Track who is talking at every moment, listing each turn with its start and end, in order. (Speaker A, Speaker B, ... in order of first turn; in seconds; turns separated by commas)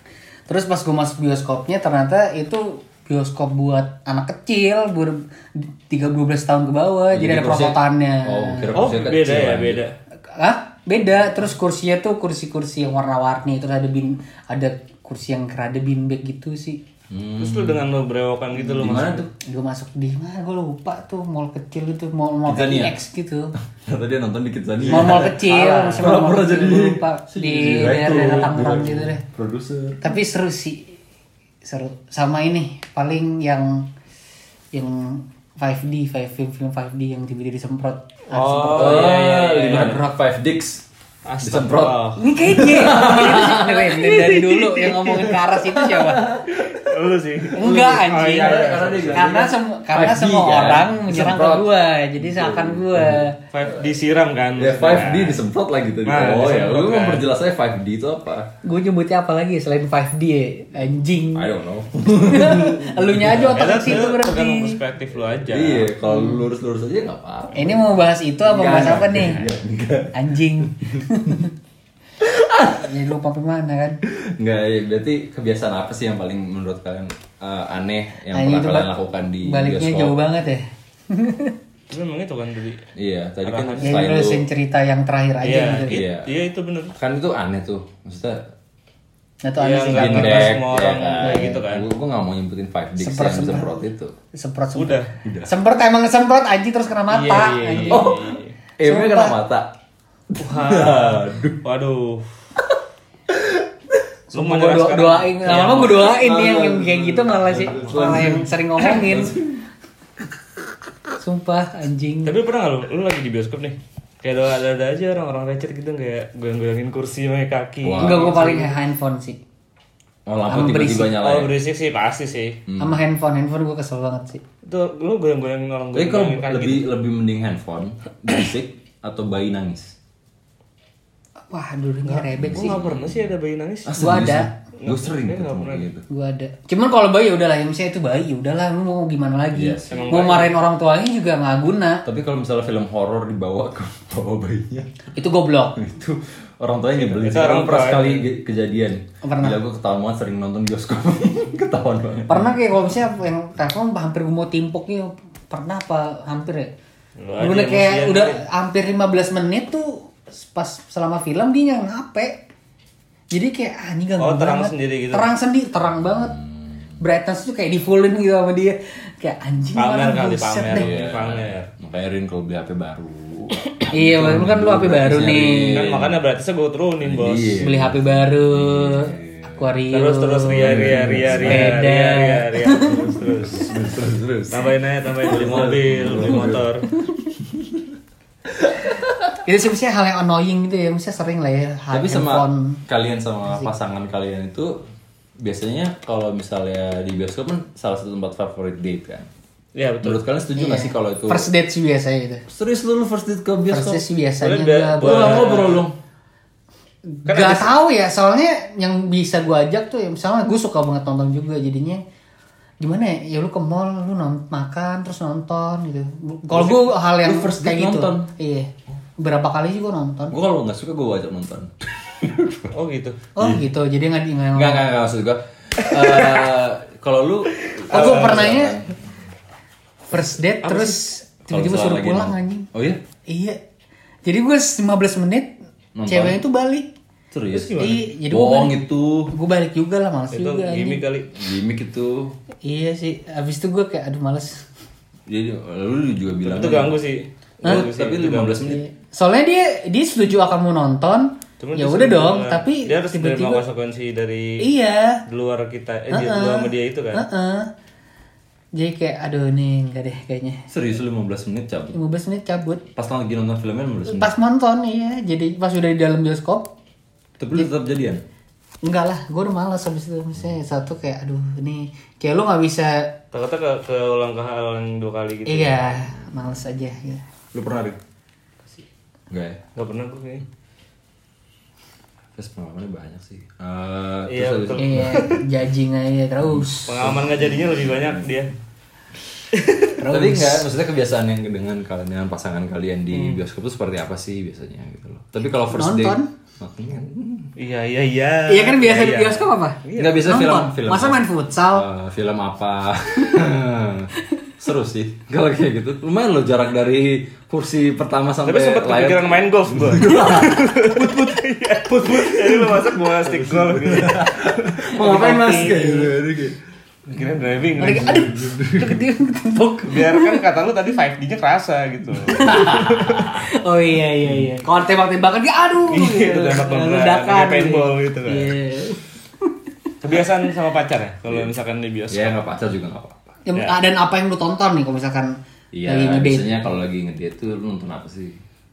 Speaker A: 0.5-8.8, Speaker B: 7.1-9.8, Speaker C: 8.7-9.9, Speaker A: 10.3-16.8, Speaker B: 17.1-17.8, Speaker C: 17.4-19.3, Speaker B: 18.6-19.3, Speaker A: 19.4-23.5, Speaker B: 22.4-22.9, Speaker B: 23.8-30.0, Speaker A: 24.9-29.2, Speaker C: 24.9-26.2, Speaker A: 30.0-31.0, Speaker A: 31.6-33.9, Speaker A: 34.7-39.2, Speaker C: 38.3-40.0, Speaker B: 38.7-40.9, Speaker C: 41.2-42.2, Speaker B: 41.4-51.7, Speaker A: 42.2-46.2, Speaker C: 46.5-49.3, Speaker A: 47.5-53.4, Speaker B: 52.2-53.3, Speaker C: 53.5-55.4, Speaker B: 54.6-58.5, Speaker C: 56.0-57.2, Speaker A: 58.6-61.5, Speaker B: 61.3-63.8, Speaker A: 62.1-64.8, Speaker C: 63.5-65.9, Speaker B: 65.4-71.4, Speaker A: 66.0-66.4, Speaker A: 67.5-69.4, Speaker A: 70.1-71.5, Speaker B: 72.2-73.1, Speaker A: 72.8-74.0, Speaker B: 74.1-80.2, Speaker A: 78.3-78.9, Speaker A: 79.4-81.6, Speaker C: 81.9-82.8, Speaker B: 83.0-84.4, Speaker C: 83.4-84.0, Speaker A: 83.8-86.0, Speaker C: 85.4-86.9, Speaker B: 85.9-86.3, Speaker B: 87.0-88.4, Speaker A: 89.4-90.6, Speaker C: 89.6-91.8, Speaker B: 89.9-94.1, Speaker A: 91.2-91.6, Speaker A: 93.0-93.8, Speaker A: 94.3-98.1, Speaker C: 94.7-95.1, Speaker B: 95.2-95.5, Speaker C: 97.1-98.5, Speaker B: 97.9-99.7, Speaker A: 98.8-99.4, Speaker B: 100.3-101.6, Speaker C: 100.4-102.3, Speaker B: 103.3-103.7, Speaker A: 104.3-109.4, Speaker C: 104.3-106.1, Speaker B: 105.5-109.7, Speaker C: 107.7-108.2, Speaker A: 111.2-112.4, Speaker C: 112.2-118.5, Speaker B: 117.8-118.7, Speaker A: 118.0-119.4, Speaker B: 120.2-121.5, Speaker A: 120.5-121.2, Speaker C: 121.1-122.6, Speaker B: 122.7-123.0, Speaker A: 122.8-124.4, Speaker C: 124.7-126.8, Speaker B: 125.9-129.9, Speaker A: 131.5-132.8, Speaker C: 132.2-134.0, Speaker B: 132.3-133.3, Speaker B: 133.8-136.1, Speaker A: 134.0-134.5, Speaker C: 134.8-135.9, Speaker A: 136.1-142.0, Speaker B: 139.5-140.4, Speaker C: 139.9-140.6, Speaker B: 142.1-144.9, Speaker A: 145.1-145.8, Speaker B: 145.8-152.7, Speaker C: 147.0-148.2, Speaker A: 149.2-149.6, Speaker A: 152.3-156.7, Speaker C: 157.2-158.4, Speaker A: 157.4-162.4, Speaker A: 163.3-166.4, Speaker C: 164.2-165.3, Speaker B: 166.1-166.7, Speaker A: 167.0-170.9, Speaker C: 169.8-171.7, Speaker B: 170.7-176.2, Speaker A: 173.9-175.8, Speaker C: 175.7-177.6, Speaker B: 177.0-179.8, Speaker A: 177.6-183.2, Speaker C: 179.9-183.7, Speaker B: 180.5-181.8, Speaker B: 182.9-186.7, Speaker C: 184.5-186.9, Speaker B: 187.4-187.9, Speaker B: 188.6-189.4, Speaker A: 189.4-192.8, Speaker B: 191.9-194.8, Speaker B: 195.4-199.3, Speaker C: 199.7-200.2, Speaker B: 200.0-201.5, Speaker A: 200.6-202.4, Speaker B: 202.5-204.0, Speaker A: 203.7-205.6, Speaker C: 204.4-205.8, Speaker B: 205.0-205.9, Speaker A: 207.1-212.0, Speaker C: 207.3-207.7, Speaker A: 212.8-220.3, Speaker B: 216.5-218.3, Speaker B: 220.3-222.7, Speaker C: 222.7-223.2, Speaker A: 223.3-224.9, Speaker B: 223.4-223.7, Speaker B: 224.5-228.9, Speaker C: 225.8-226.5, Speaker C: 227.6-228.6, Speaker A: 227.9-228.8, Speaker A: 230.1-232.7, Speaker C: 230.6-231.0, Speaker B: 231.5-233.0, Speaker A: 233.3-233.6, Speaker A: 234.2-235.5, Speaker B: 235.9-236.4, Speaker A: 236.1-236.9, Speaker B: 237.3-239.3, Speaker C: 237.5-238.0, Speaker A: 237.8-241.0, Speaker C: 240.3-241.3, Speaker B: 241.3-242.3, Speaker A: 242.6-244.7, Speaker B: 245.3-246.9, Speaker C: 246.4-248.7, Speaker B: 247.6-248.8, Speaker A: 248.6-253.6, Speaker C: 251.6-254.6, Speaker A: 254.6-255.2, Speaker C: 255.2-257.2, Speaker A: 256.1-257.7, Speaker A: 258.7-260.6, Speaker B: 260.7-262.0, Speaker A: 261.9-262.8, Speaker B: 262.9-264.3, Speaker A: 264.1-266.7, Speaker B: 267.4-268.2, Speaker A: 268.8-273.1, Speaker C: 273.3-275.9, Speaker A: 275.4-277.2, Speaker B: 277.5-278.0, Speaker B: 279.3-279.6, Speaker C: 279.7-280.4, Speaker B: 282.4-285.4, Speaker C: 284.3-285.2, Speaker A: 284.8-287.3, Speaker B: 286.4-288.1, Speaker C: 286.9-288.5, Speaker C: 289.5-289.9, Speaker A: 290.0-290.7, Speaker B: 290.0-297.5, Speaker C: 293.1-293.4, Speaker A: 295.6-296.3, Speaker C: 297.6-300.2, Speaker A: 298.5-301.9, Speaker B: 299.9-319.0, Speaker C: 308.4-314.7, Speaker A: 314.9-316.1, Speaker C: 317.1-318.2, Speaker A: 317.8-320.5, Speaker C: 319.9-323.3, Speaker A: 322.3-329.1, Speaker B: 322.3-323.4, Speaker B: 324.2-324.5, Speaker C: 325.9-328.5, Speaker C: 330.0-332.3, Speaker B: 331.3-331.5, Speaker B: 332.1-333.3, Speaker A: 333.4-335.4, Speaker B: 335.7-338.4, Speaker A: 335.9-336.7